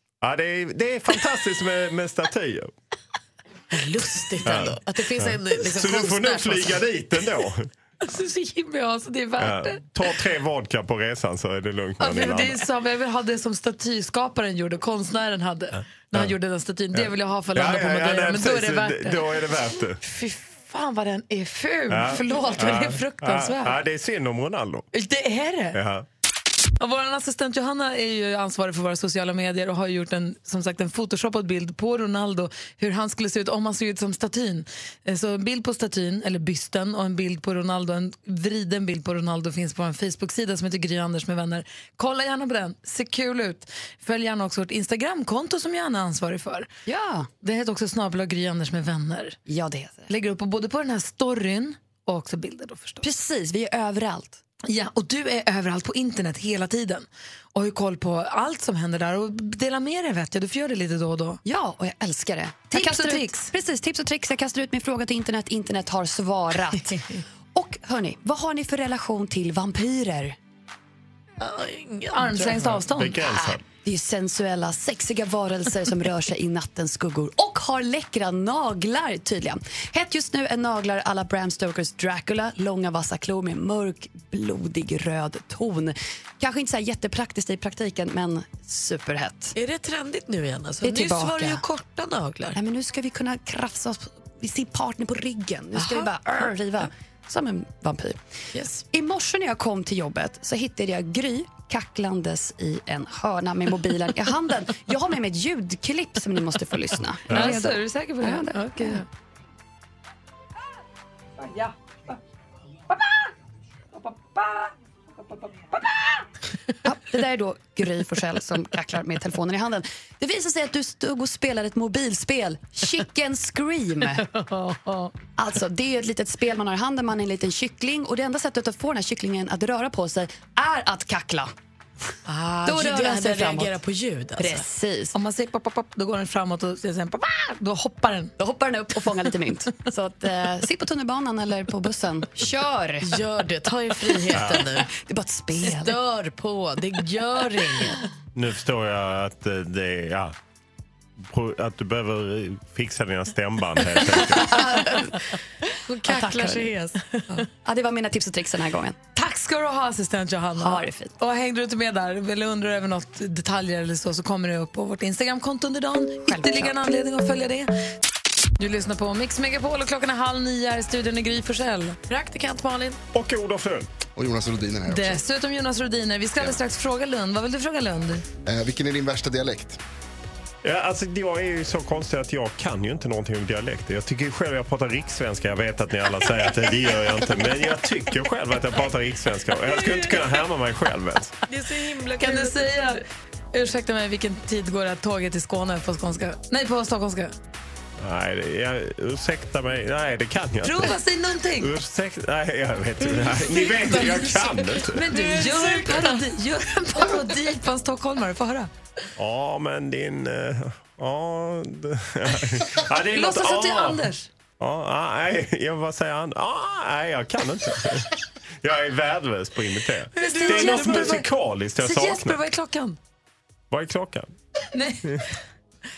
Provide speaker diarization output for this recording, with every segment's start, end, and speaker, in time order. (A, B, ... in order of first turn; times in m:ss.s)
0:00.2-0:02.7 A
0:03.7-0:06.8 B
0:04.5-0:07.7 A
0:08.0-0:09.8 C
0:09.4-0:12.6 A
0:12.0-0:19.2 C
0:16.9-0:20.0 A
0:20.0-0:23.8 C
0:21.9-0:24.9 A
0:24.9-0:25.8 C
0:25.7-0:26.0 A
0:26.8-0:46.7 C
0:46.9-0:47.3 D
0:47.4-0:49.4 C
0:49.5-0:50.1 D
0:50.1-0:53.0 C
0:53.0-0:54.4 D
0:54.7-1:01.4 C
1:01.4-1:07.0 D
1:02.7-1:03.5 C
1:07.5-1:10.4 D
1:11.4-1:12.7 B
1:12.1-1:13.2 C
1:12.8-1:13.6 A
1:13.8-1:29.6 D
1:29.6-1:32.6 B
1:30.8-1:31.6 D
1:32.5-1:38.2 D
1:35.8-1:36.1 B
1:38.5-1:38.8 B
1:38.9-1:49.0 D
1:47.3-1:47.6 A
1:47.3-1:49.0 C
1:54.2-1:54.6 C
1:56.8-2:04.2 D
2:05.4-2:11.5 D
2:12.3-2:14.6 B
2:12.6-2:13.7 D
2:14.4-2:15.2 D
2:15.1-2:18.3 C
2:18.4-2:23.1 D
2:23.0-2:24.9 B
2:24.3-2:24.7 A
2:24.9-2:26.0 D
2:25.6-2:28.0 B
2:28.4-2:30.3 A
2:31.2-2:34.8 A
2:34.5-2:35.2 B
2:34.6-2:35.0 D
2:35.7-2:37.4 B
2:36.0-2:36.7 D
2:37.6-2:39.0 D
2:39.2-2:47.7 C
2:40.6-2:41.2 D
2:46.3-2:46.8 D
2:48.6-2:52.0 C
2:52.1-2:53.0 B
2:53.1-2:53.9 A
2:54.2-2:55.2 E
2:54.9-2:58.2 C
2:58.5-2:59.8 E
3:00.6-3:11.3 A
3:11.5-3:13.0 B
3:12.2-3:17.3 C
3:18.0-3:21.0 A
3:20.6-3:21.7 C
3:21.6-3:25.0 A
3:23.0-3:25.9 B
3:24.9-3:28.7 C
3:29.2-3:34.1 A
3:33.1-3:34.3 C
3:34.6-3:38.1 A
3:38.6-3:42.4 A
3:40.2-3:41.2 B
3:40.2-3:43.0 C
3:43.7-3:44.3 A
3:44.7-3:45.2 C